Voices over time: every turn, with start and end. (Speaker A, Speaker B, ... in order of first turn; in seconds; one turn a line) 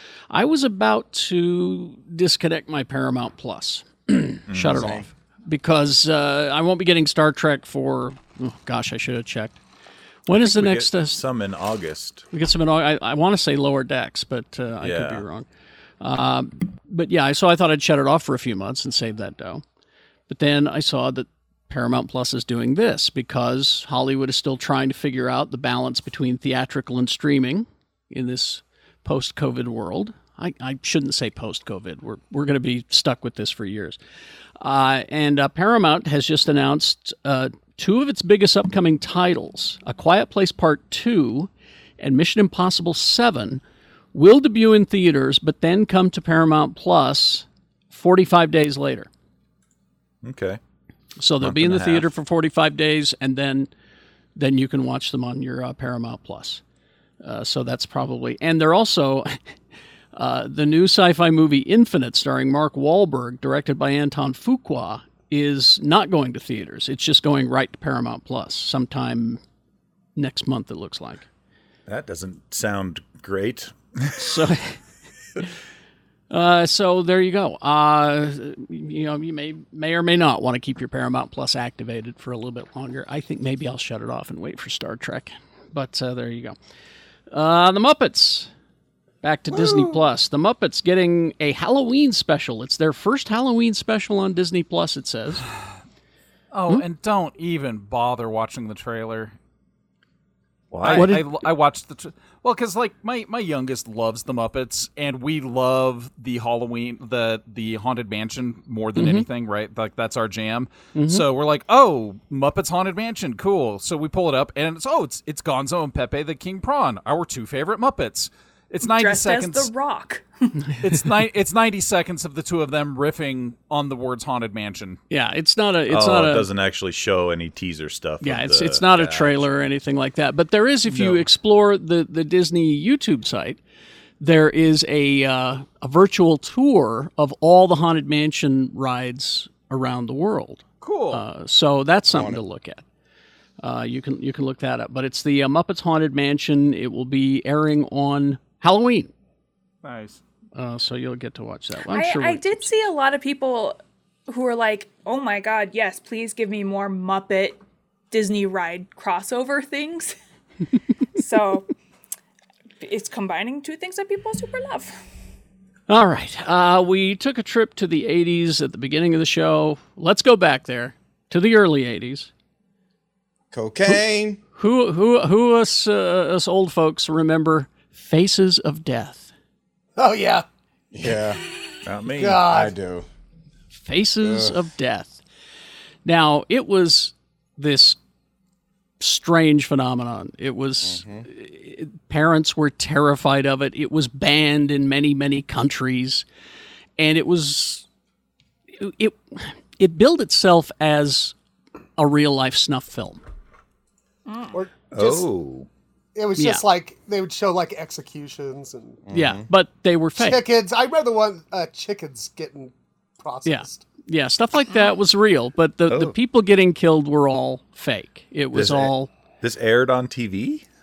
Speaker A: 0.3-9.6
Speaker B: 4.5-5.0
Speaker C: 4.7-5.0
Speaker A: 10.3-11.2
Speaker B: 10.3-12.2
Speaker A: 12.3-15.4
Speaker B: 14.8-15.2
Speaker A: 16.0-19.6
Speaker A: 20.3-34.0
Speaker A: 34.6-43.6
Speaker A: 44.1-49.1
Speaker B: 50.2-50.6
Speaker A: 51.2-53.7
Speaker B: 51.4-52.1
Speaker A: 54.4-56.6
Speaker A: 57.2-59.4
Speaker A: 60.1-69.4
Speaker A: 70.2-71.2
Speaker B: 71.9-74.4
Speaker A: 74.2-74.8
Speaker A: 76.3-86.5
Speaker A: 87.3-88.5
Speaker A: 89.2-95.5
Speaker D: 96.5-99.3
Speaker B: 100.7-101.1
Speaker D: 100.8-119.7
Speaker A: 100.8-101.4
Speaker A: 109.0-109.2
Speaker A: 110.9-111.2
Speaker E: 118.8-120.6
Speaker D: 120.8-125.0
Speaker A: 125.1-126.5
Speaker B: 125.9-129.4
Speaker A: 128.2-133.6
Speaker D: 130.9-131.2
Speaker A: 134.2-142.8
Speaker D: 140.8-141.2
Speaker C: 142.1-142.4
Speaker A: 143.6-149.1
Speaker D: 149.8-150.2
Speaker A: 150.5-152.7
Speaker E: 151.9-160.1
Speaker E: 161.1-161.7
Speaker E: 162.8-165.0
Speaker A: 165.9-172.3
Speaker C: 173.5-174.4
Speaker A: 174.6-179.3
Speaker F: 180.0-180.4
Speaker C: 180.9-181.4
Speaker B: 181.8-182.6
Speaker F: 182.1-182.7
Speaker C: 182.4-183.1
Speaker A: 183.7-185.2
Speaker C: 184.2-184.6
Speaker A: 186.0-188.0
Speaker A: 189.0-196.2
Speaker C: 190.8-191.2
Speaker A: 197.0-197.8
Speaker A: 198.8-201.3
Speaker A: 202.0-203.2
Speaker E: 204.2-204.6
Speaker F: 204.5-205.3
Speaker B: 204.9-205.7
Speaker F: 206.1-209.0
Speaker A: 206.4-206.6
Speaker C: 209.1-209.4
Speaker A: 209.1-210.4
Speaker F: 210.2-213.8
Speaker A: 213.4-219.1
Speaker B: 215.9-216.1
Speaker B: 218.5-220.6